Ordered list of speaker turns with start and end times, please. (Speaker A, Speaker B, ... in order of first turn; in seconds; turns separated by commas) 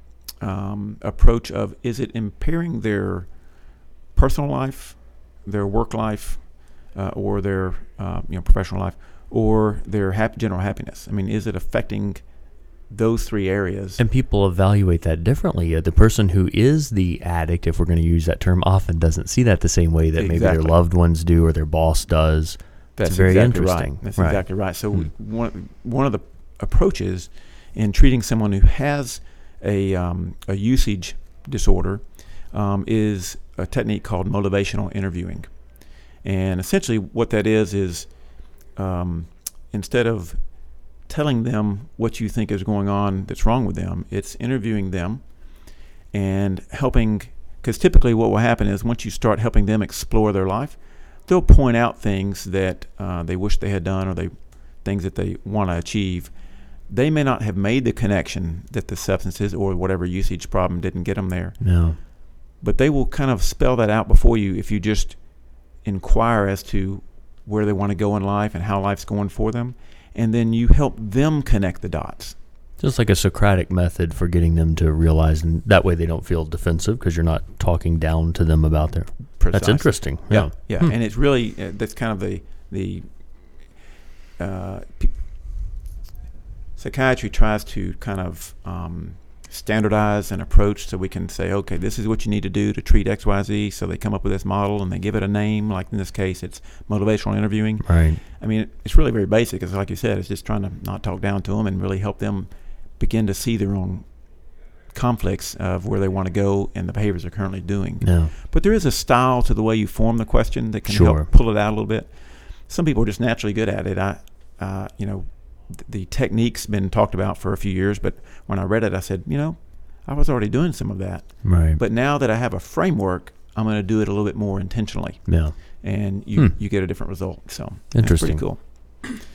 Speaker A: 0.4-3.3, Speaker A: 4.2-12.2, Speaker A: 12.9-14.0, Speaker B: 14.0-24.4, Speaker A: 20.1-20.8, Speaker A: 23.0-35.5, Speaker A: 36.2-38.1, Speaker A: 38.8-40.4, Speaker A: 41.1-45.2, Speaker A: 46.1-56.3, Speaker A: 56.9-61.6, Speaker B: 61.6-62.0, Speaker A: 62.6-65.2, Speaker A: 65.8-72.3, Speaker B: 72.8-80.5, Speaker A: 79.4-83.0, Speaker A: 84.4-85.1, Speaker A: 86.8-104.0, Speaker B: 97.8-98.2, Speaker A: 104.9-112.1, Speaker B: 108.0-108.3, Speaker B: 110.9-111.3, Speaker A: 112.7-128.6, Speaker B: 121.4-121.8, Speaker B: 125.3-125.5, Speaker B: 127.9-128.4